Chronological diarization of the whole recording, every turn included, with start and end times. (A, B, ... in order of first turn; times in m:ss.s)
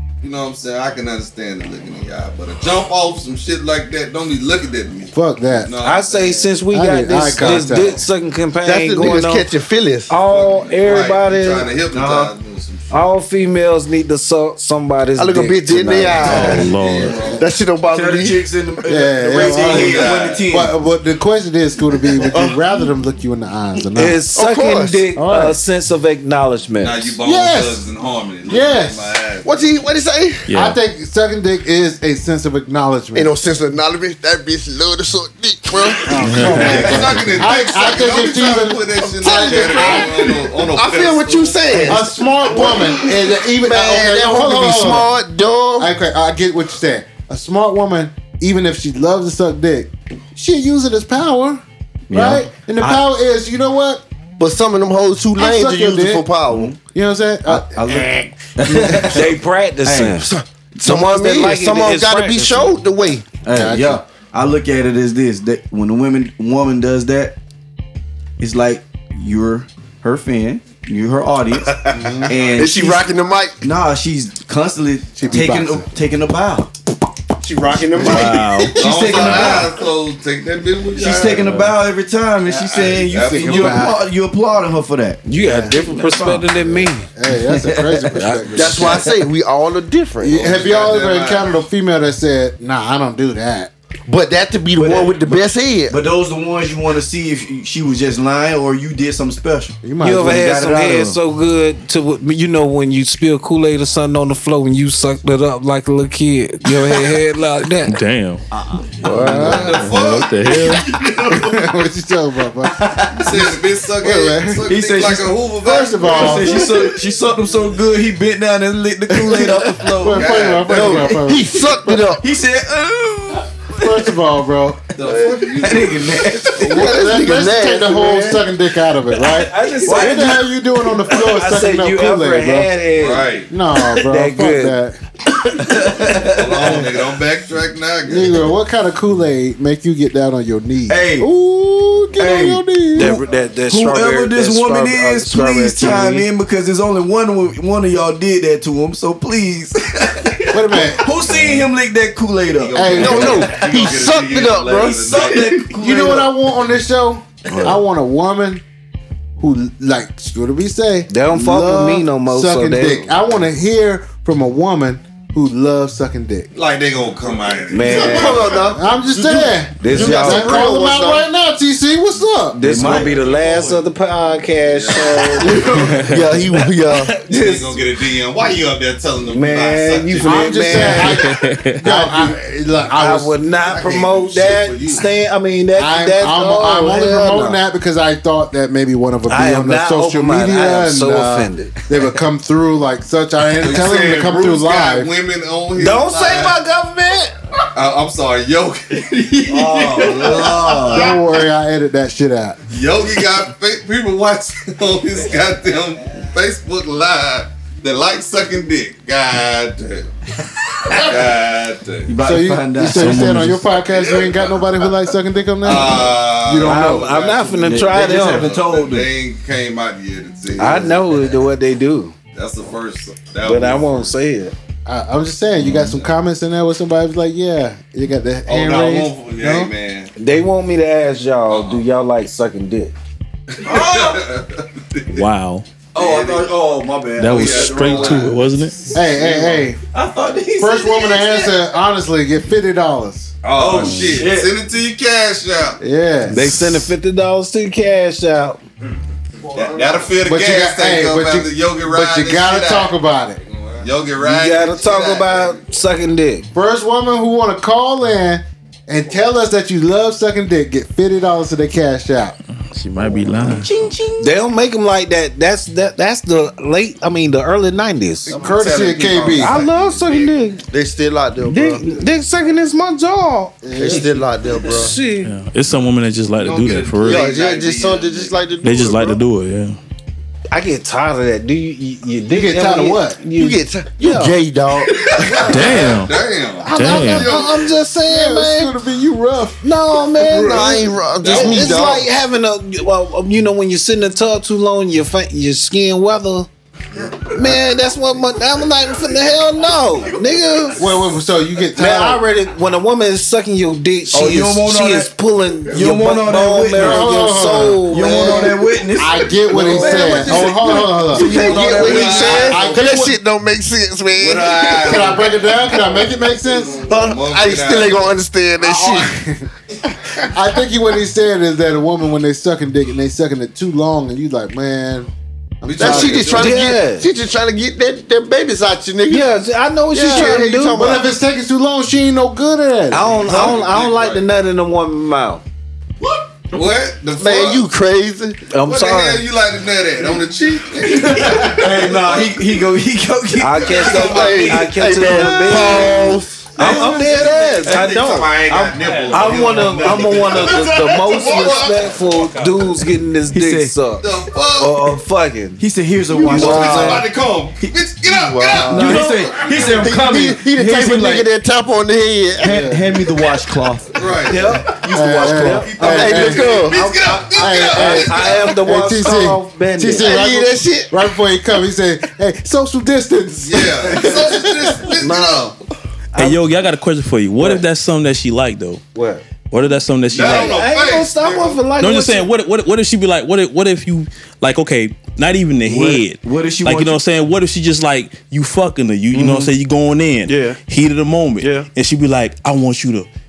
0:00.2-0:06.5 A
0:05.1-0:05.7 B
0:05.8-0:09.5 C
0:06.7-0:08.0 B
0:08.6-0:10.1 D
0:10.1-0:11.7 C
0:10.2-0:13.0 A
0:11.9-0:12.3 E
0:12.9-0:16.6 C
0:15.2-0:16.7 D
0:16.2-0:17.2 F
0:16.2-0:17.4 A
0:17.3-0:18.5 D
0:17.9-0:20.8 E
0:18.8-0:24.2 B
0:19.4-0:20.5 A
0:22.2-0:22.6 D
0:23.9-0:27.2 C
0:24.3-0:25.1 D
0:25.1-0:25.6 B
0:26.8-0:29.5 A
0:27.2-0:27.8 B
0:28.5-0:29.1 B
0:29.4-0:30.5 D
0:30.5-0:30.8 F
0:30.5-0:33.3 B
0:33.1-0:36.8 D
0:36.0-0:40.2 B
0:36.2-0:37.0 F
0:36.4-0:37.4 E
0:36.5-0:42.0 A
0:39.0-0:45.9 D
0:41.8-0:45.1 B
0:45.8-0:54.0 B
0:52.1-0:52.5 E
0:54.4-0:56.7 D
0:55.4-0:56.3 B
0:56.5-0:56.8 E
0:56.8-0:58.1 B
0:57.5-1:00.3 E
0:58.7-0:59.1 B
0:59.1-1:00.3 C
1:00.2-1:03.3 D
1:00.8-1:02.7 C
1:03.4-1:07.4 E
1:03.5-1:04.0 B
1:08.4-1:16.7 E
1:11.8-1:13.6 D
1:15.2-1:15.9 B
1:17.4-1:19.6 D
1:18.0-1:19.8 E
1:18.0-1:19.0 F
1:18.7-1:21.7 A
1:20.9-1:26.9 E
1:22.4-1:23.9 A
1:23.1-1:24.0 B
1:25.2-1:27.1 C
1:25.4-1:25.8 B
1:27.1-1:29.0 B
1:27.5-1:28.2 E
1:28.1-1:29.1 C
1:28.5-1:30.6 D
1:30.2-1:33.7 B
1:30.3-1:31.6 A
1:34.0-1:36.0 D
1:34.8-1:39.8 E
1:39.8-1:41.2 B
1:40.0-1:48.0 C
1:47.8-1:48.4 F
1:48.5-1:49.6 E
1:49.0-1:50.9 F
1:49.0-1:49.6 C
1:49.0-1:49.9 B
1:49.3-1:51.6 A
1:51.3-1:54.6 B
1:52.8-1:53.4 E
1:53.1-1:56.7 A
1:54.6-2:01.2 E
1:55.6-1:56.7 B
2:00.0-2:02.1 B
2:00.0-2:01.0 A
2:00.6-2:02.2 D
2:02.2-2:04.1 E
2:03.7-2:04.8 B
2:05.0-2:06.2 A
2:05.2-2:06.9 E
2:06.6-2:12.8 B
2:06.6-2:08.4 D
2:09.1-2:10.5 C
2:09.8-2:10.3 E
2:11.0-2:14.8 C
2:12.9-2:13.5 A
2:13.4-2:15.0 B
2:15.4-2:17.0 E
2:15.7-2:16.0 C
2:16.2-2:18.5 A
2:18.1-2:23.2 B
2:20.9-2:21.3 E
2:22.2-2:23.1 E
2:22.9-2:26.3 C
2:23.6-2:33.9 E
2:30.5-2:31.1 B
2:32.5-2:35.6 A
2:32.7-2:33.4 B
2:32.9-2:35.3 D
2:34.7-2:36.4 E
2:35.6-2:38.6 B
2:37.5-2:37.8 C
2:39.4-2:46.5 B
2:41.1-2:43.1 C
2:46.5-2:48.7 A
2:47.7-2:48.4 C
2:47.8-2:51.2 D
2:48.6-2:52.7 B
2:49.8-2:50.7 C
2:52.5-2:55.8 C
2:52.6-2:53.2 E
2:52.8-2:53.9 A
2:54.7-2:55.5 A
2:55.4-2:57.1 D
2:55.5-2:56.6 F
2:56.9-2:57.9 C
2:57.2-3:01.1 A
2:59.3-3:01.2 C
3:00.2-3:03.3 B
3:01.1-3:01.8 F
3:01.8-3:02.3 C
3:02.9-3:07.6 C
3:03.5-3:05.1 A
3:05.8-3:15.1 B
3:09.3-3:11.7 C
3:13.6-3:16.6 A
3:15.8-3:17.3 C
3:17.7-3:21.1 A
3:19.4-3:21.2 E
3:20.8-3:22.6 B
3:22.7-3:30.1 A
3:30.9-3:32.1 A
3:32.1-3:33.6 E
3:32.2-3:37.1 B
3:32.9-3:33.6 F
3:33.8-3:34.5 A
3:35.6-3:41.2 A
3:36.6-3:38.5 C
3:37.2-3:39.1 E
3:40.6-3:42.1 C
3:42.3-3:44.1 A
3:43.4-3:44.5 C
3:44.8-3:49.7 B
3:45.6-3:46.1 A
3:48.5-3:50.1 A
3:50.2-3:52.9 C
3:51.5-3:51.8 A
3:53.6-3:54.3 E
3:53.6-3:55.2 A
3:55.1-3:55.6 F
3:55.9-3:58.9 E
3:55.9-3:56.6 A
3:57.2-3:58.8 F
3:57.3-3:58.4 A
3:58.9-3:59.8 B
3:59.0-3:59.7 A
3:59.9-4:01.6 E
4:00.6-4:03.3 B
4:03.4-4:05.8 A
4:03.5-4:04.6 E
4:03.7-4:04.3 F
4:05.8-4:06.5 B
4:06.3-4:08.6 C
4:09.5-4:12.9 A
4:10.2-4:13.4 B
4:13.4-4:15.6 A
4:14.2-4:16.5 C
4:16.5-4:22.4 B
4:22.6-4:23.8 F
4:23.4-4:24.3 E
4:24.2-4:28.4 C
4:28.2-4:30.5 A
4:28.3-4:29.6 B
4:29.4-4:30.6 C
4:30.7-4:31.8 D
4:31.4-4:35.3 C
4:33.6-4:34.9 D
4:33.7-4:34.1 B
4:35.2-4:37.2 F
4:36.4-4:36.8 E
4:36.4-4:38.4 A
4:37.0-4:39.2 D
4:38.6-4:39.8 F
4:40.5-4:44.4 C
4:42.3-4:43.2 B
4:43.3-4:46.0 D
4:45.0-4:47.7 A
4:45.1-4:46.0 C
4:45.5-4:46.1 F
4:46.6-4:48.7 C
4:46.7-4:47.3 F
4:48.0-4:49.6 B
4:49.6-4:56.5 C
4:50.2-4:52.0 D
4:50.3-4:52.1 A
4:57.3-5:00.9 C
5:00.0-5:00.7 E
5:00.7-5:02.3 B
5:01.7-5:08.6 C
5:04.1-5:05.1 E
5:05.7-5:07.1 E
5:06.8-5:13.2 B
5:07.8-5:12.6 E
5:09.7-5:10.1 C
5:11.1-5:15.2 D
5:11.3-5:13.1 A
5:14.1-5:15.6 A
5:14.8-5:16.8 B
5:16.8-5:19.1 D
5:16.9-5:18.1 A
5:18.6-5:19.5 B
5:20.2-5:25.1 B
5:25.6-5:26.5 B
5:25.6-5:26.7 A
5:25.8-5:29.3 D
5:26.3-5:27.0 C
5:29.1-5:30.8 C
5:29.9-5:31.1 D
5:30.0-5:33.3 B
5:32.9-5:35.4 C
5:33.1-5:34.2 A
5:36.5-5:37.7 A
5:37.2-5:38.4 D
5:38.5-5:39.2 C
5:38.6-5:42.4 A
5:40.8-5:47.7 E
5:43.4-5:55.6 C
5:43.7-5:46.6 D
5:46.6-5:52.6 A
5:48.7-5:49.9 F
5:53.3-5:53.8 E
5:54.0-5:54.9 A
5:55.6-5:57.8 E
5:56.1-5:56.6 D
5:56.2-5:57.1 C
5:56.2-5:59.7 A
5:58.0-6:02.7 D
5:58.6-5:59.2 C
5:58.6-6:01.3 E
6:02.4-6:03.0 B
6:02.4-6:06.0 E
6:03.9-6:04.5 A
6:04.2-6:10.1 C
6:04.8-6:06.4 B
6:05.8-6:06.9 D
6:06.1-6:08.5 A
6:07.3-6:14.9 B
6:10.0-6:10.9 D
6:13.4-6:15.5 A
6:15.0-6:15.5 C
6:16.1-6:16.4 C
6:16.1-6:18.8 F
6:17.4-6:17.6 C
6:18.9-6:19.2 C
6:19.5-6:20.6 F
6:20.1-6:21.6 A
6:20.2-6:22.3 C
6:21.8-6:33.1 F
6:25.6-6:27.0 E
6:29.1-6:29.5 C
6:30.2-6:30.6 C
6:31.4-6:31.7 C